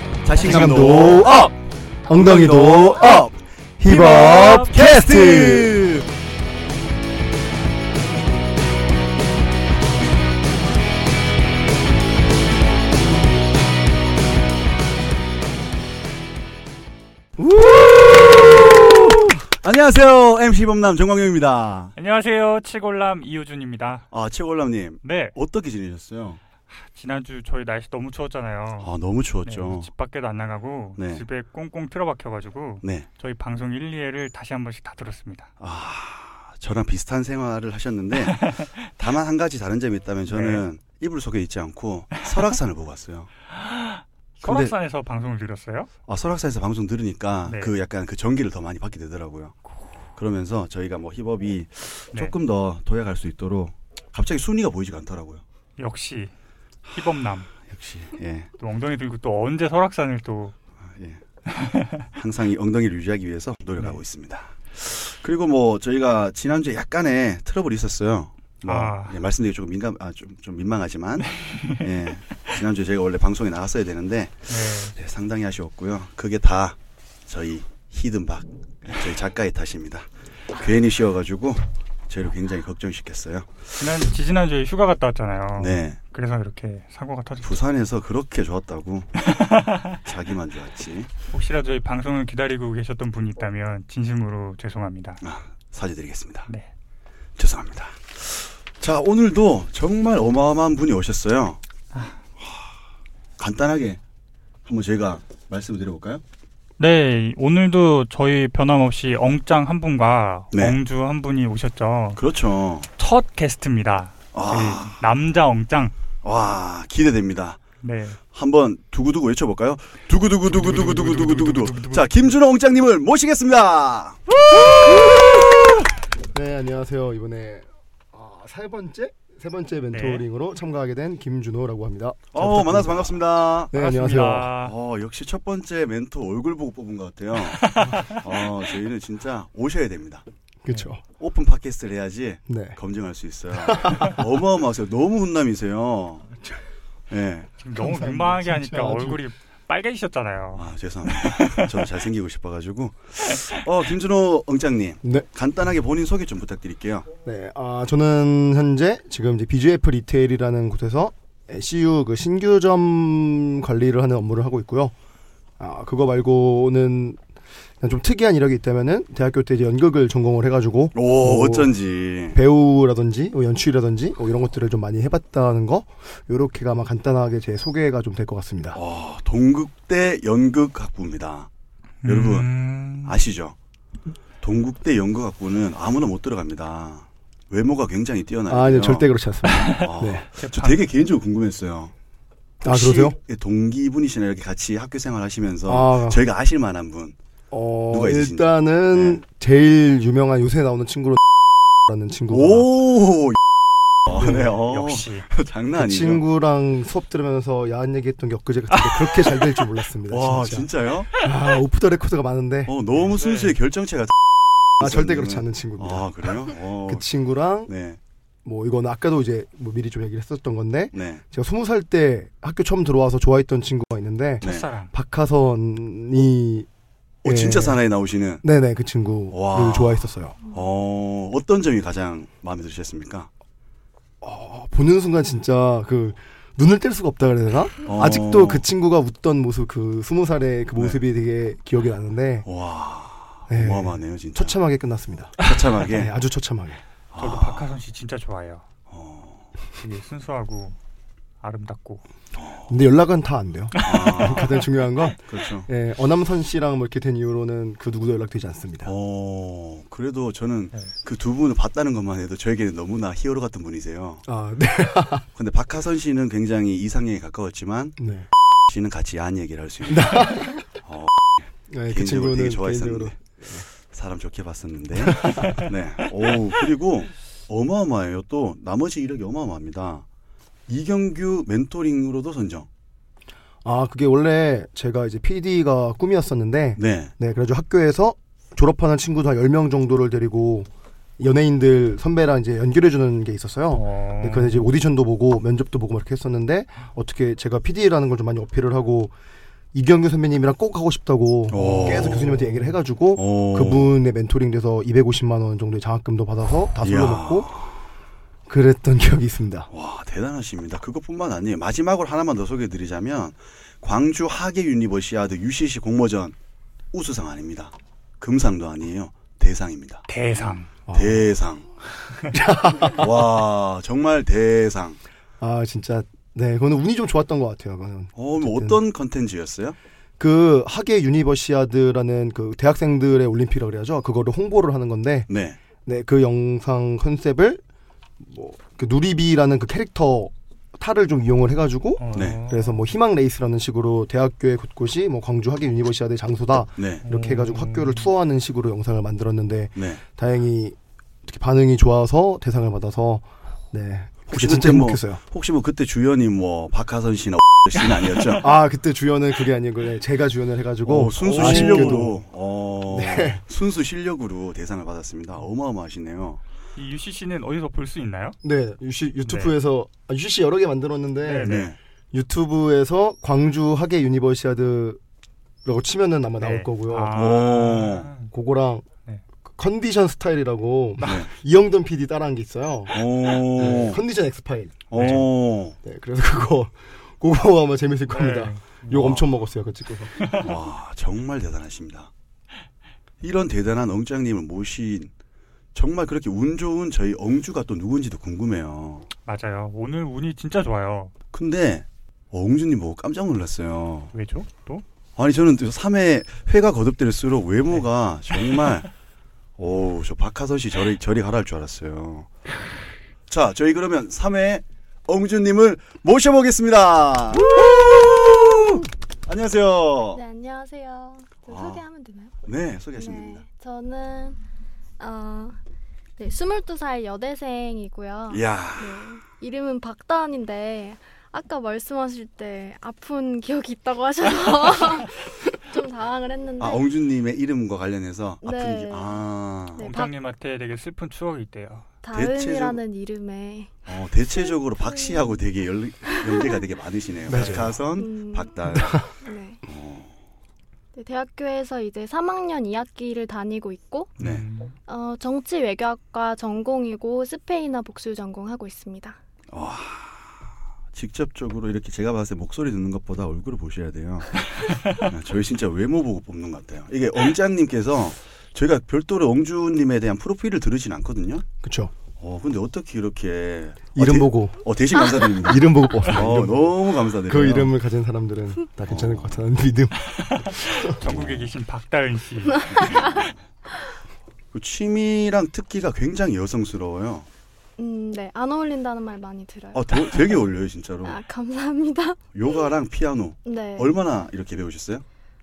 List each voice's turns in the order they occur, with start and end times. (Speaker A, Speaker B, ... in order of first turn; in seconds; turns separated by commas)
Speaker A: 0.2-1.5, Speaker B: 0.3-1.5, Speaker B: 2.1-5.8, Speaker A: 2.1-3.3, Speaker C: 3.8-4.7, Speaker A: 4.0-6.1, Speaker B: 17.4-18.2, Speaker A: 19.6-21.9, Speaker C: 21.9-24.1, Speaker A: 24.1-26.4, Speaker C: 25.0-25.3, Speaker C: 26.7-28.9, Speaker A: 28.8-29.9, Speaker C: 29.4-35.5, Speaker A: 30.9-31.3, Speaker A: 32.8-33.1, Speaker A: 35.6-43.3, Speaker C: 38.2-38.7, Speaker C: 40.3-40.6, Speaker C: 43.5-45.9, Speaker A: 44.4-44.7, Speaker A: 46.1-49.6, Speaker C: 47.5-47.7, Speaker A: 50.1-55.4, Speaker C: 55.8-56.3, Speaker C: 56.9-57.5, Speaker A: 57.7-58.5, Speaker C: 58.6-60.5, Speaker A: 60.8-61.2, Speaker C: 61.6-62.0, Speaker A: 62.1-83.7, Speaker C: 68.6-69.2, Speaker C: 71.3-71.9, Speaker C: 74.5-75.0, Speaker C: 83.8-87.5, Speaker A: 85.6-86.0, Speaker A: 87.4-89.1, Speaker C: 89.2-90.0, Speaker A: 90.0-91.1, Speaker C: 91.3-95.2, Speaker A: 95.2-96.5, Speaker A: 97.4-101.6, Speaker A: 103.4-104.0, Speaker A: 104.6-106.2, Speaker C: 106.8-112.2, Speaker A: 110.5-110.8, Speaker A: 112.2-112.9, Speaker C: 113.0-115.9, Speaker A: 114.3-115.0, Speaker A: 116.2-117.6, Speaker C: 117.8-118.2, Speaker A: 118.3-125.7, Speaker C: 120.5-122.3, Speaker B: 124.7-125.0, Speaker B: 126.3-134.5, Speaker C: 129.9-130.2, Speaker A: 132.3-133.8, Speaker C: 133.7-134.7, Speaker A: 134.6-140.2, Speaker C: 137.4-138.2, Speaker B: 137.8-138.1, Speaker B: 140.6-141.0, Speaker A: 141.2-146.3, Speaker B: 142.5-142.8, Speaker B: 143.6-144.1, Speaker A: 147.1-147.5, Speaker C: 147.6-151.9, Speaker B: 147.7-149.2, Speaker A: 150.5-157.1, Speaker B: 157.2-164.9, Speaker B: 165.6-167.2, Speaker B: 167.8-171.8, Speaker A: 170.9-172.4, Speaker B: 172.3-178.8, Speaker A: 178.7-181.5, Speaker C: 182.0-183.2, Speaker A: 182.0-183.6, Speaker A: 184.4-189.1, Speaker B: 188.5-190.2, Speaker C: 189.4-190.8, Speaker A: 189.7-191.9, Speaker A: 192.6-197.2, Speaker B: 192.6-193.2, Speaker B: 195.7-196.2, Speaker B: 197.5-201.2, Speaker A: 197.9-199.2, Speaker B: 201.9-202.7, Speaker A: 202.3-203.4, Speaker A: 204.0-206.2, Speaker B: 204.1-204.5, Speaker C: 204.5-205.3, Speaker B: 205.8-212.7, Speaker A: 210.1-211.1, Speaker A: 212.7-214.2, Speaker C: 212.9-213.6, Speaker A: 214.8-217.1, Speaker B: 214.8-217.7, Speaker A: 217.7-218.0, Speaker B: 218.4-226.7, Speaker A: 220.9-221.2, Speaker C: 224.4-224.9, Speaker A: 224.4-224.7, Speaker A: 227.2-228.4, Speaker B: 227.2-227.8, Speaker B: 228.4-230.4, Speaker A: 229.3-233.3, Speaker B: 234.2-242.5, Speaker A: 237.8-238.7, Speaker A: 240.7-241.0, Speaker A: 242.4-244.6, Speaker B: 243.5-246.8, Speaker A: 245.4-246.1, Speaker A: 247.1-247.7, Speaker C: 247.2-248.7, Speaker A: 248.9-249.5, Speaker C: 249.8-250.8, Speaker C: 251.4-252.0, Speaker A: 252.3-252.8, Speaker B: 252.7-258.9, Speaker C: 253.8-254.6, Speaker A: 253.8-254.6, Speaker A: 255.2-255.7, Speaker A: 258.8-264.3, Speaker B: 264.3-265.2, Speaker A: 265.3-268.0, Speaker B: 268.0-268.3, Speaker A: 268.7-273.2, Speaker B: 269.9-270.6, Speaker B: 271.7-273.6, Speaker A: 273.8-280.0, Speaker B: 275.0-275.6, Speaker A: 280.7-282.7, Speaker B: 283.6-290.7, Speaker A: 286.8-287.1, Speaker B: 291.2-299.1, Speaker C: 293.7-294.8, Speaker B: 299.7-307.5, Speaker A: 301.5-302.6, Speaker C: 301.6-302.2, Speaker A: 303.1-303.9, Speaker A: 306.8-307.7, Speaker B: 308.5-309.7, Speaker A: 309.7-316.3, Speaker A: 316.9-320.1, Speaker C: 320.1-320.7, Speaker B: 320.9-321.3, Speaker A: 320.9-321.7, Speaker B: 322.3-323.1, Speaker A: 322.9-325.0, Speaker B: 325.4-328.8, Speaker A: 328.1-329.8, Speaker B: 330.2-335.3, Speaker A: 335.3-335.6, Speaker B: 335.8-337.6, Speaker B: 338.2-355.2, Speaker C: 342.0-342.8, Speaker A: 342.1-342.4, Speaker A: 346.8-347.0, Speaker C: 347.0-348.1, Speaker A: 349.7-350.0, Speaker A: 354.3-358.6, Speaker B: 358.4-362.2, Speaker A: 360.8-366.4, Speaker C: 361.3-362.0, Speaker B: 362.9-363.4, Speaker C: 366.8-368.4, Speaker B: 368.4-375.0, Speaker C: 369.2-369.6, Speaker C: 371.2-371.7, Speaker A: 371.4-371.8, Speaker B: 375.6-377.3, Speaker C: 376.4-378.3, Speaker A: 377.1-378.1, Speaker B: 378.3-378.8, Speaker B: 379.4-383.0, Speaker A: 381.0-381.3, Speaker A: 382.9-384.0, Speaker B: 383.5-385.1, Speaker A: 384.9-385.8, Speaker C: 384.9-385.3, Speaker B: 385.8-390.4, Speaker C: 388.1-389.2, Speaker A: 388.9-389.2, Speaker C: 390.2-390.4, Speaker A: 390.3-392.1, Speaker A: 393.2-395.1, Speaker A: 395.7-399.1, Speaker C: 399.2-401.1, Speaker A: 401.3-404.1, Speaker C: 404.1-404.8, Speaker A: 405.1-408.9, Speaker A: 409.6-412.3, Speaker A: 413.3-420.2, Speaker D: 420.1-422.3, Speaker A: 421.5-421.8, Speaker A: 422.4-423.4, Speaker D: 422.9-424.4, Speaker D: 425.0-425.6, Speaker D: 426.2-436.9, Speaker A: 428.3-429.1, Speaker A: 436.6-439.9, Speaker D: 438.4-439.2, Speaker D: 439.7-440.1, Speaker C: 439.8-441.9, Speaker D: 442.0-443.7, Speaker A: 442.1-442.8, Speaker A: 443.9-449.1, Speaker D: 444.3-445.4, Speaker D: 446.1-446.6, Speaker B: 447.3-447.8, Speaker D: 447.9-449.6, Speaker B: 448.7-449.1, Speaker A: 449.6-450.1, Speaker D: 450.9-454.1, Speaker C: 454.2-454.8, Speaker A: 454.2-454.4, Speaker D: 454.9-459.2, Speaker A: 459.5-471.4, Speaker B: 471.6-471.9, Speaker A: 472.2-477.8, Speaker B: 473.9-474.6, Speaker B: 475.4-480.1, Speaker A: 478.8-479.5, Speaker C: 480.1-483.1, Speaker A: 481.0-481.5, Speaker A: 482.7-483.4, Speaker A: 484.5-487.3, Speaker D: 487.8-490.4, Speaker A: 489.7-491.2, Speaker D: 491.0-492.2, Speaker A: 492.3-495.0, Speaker D: 493.4-494.0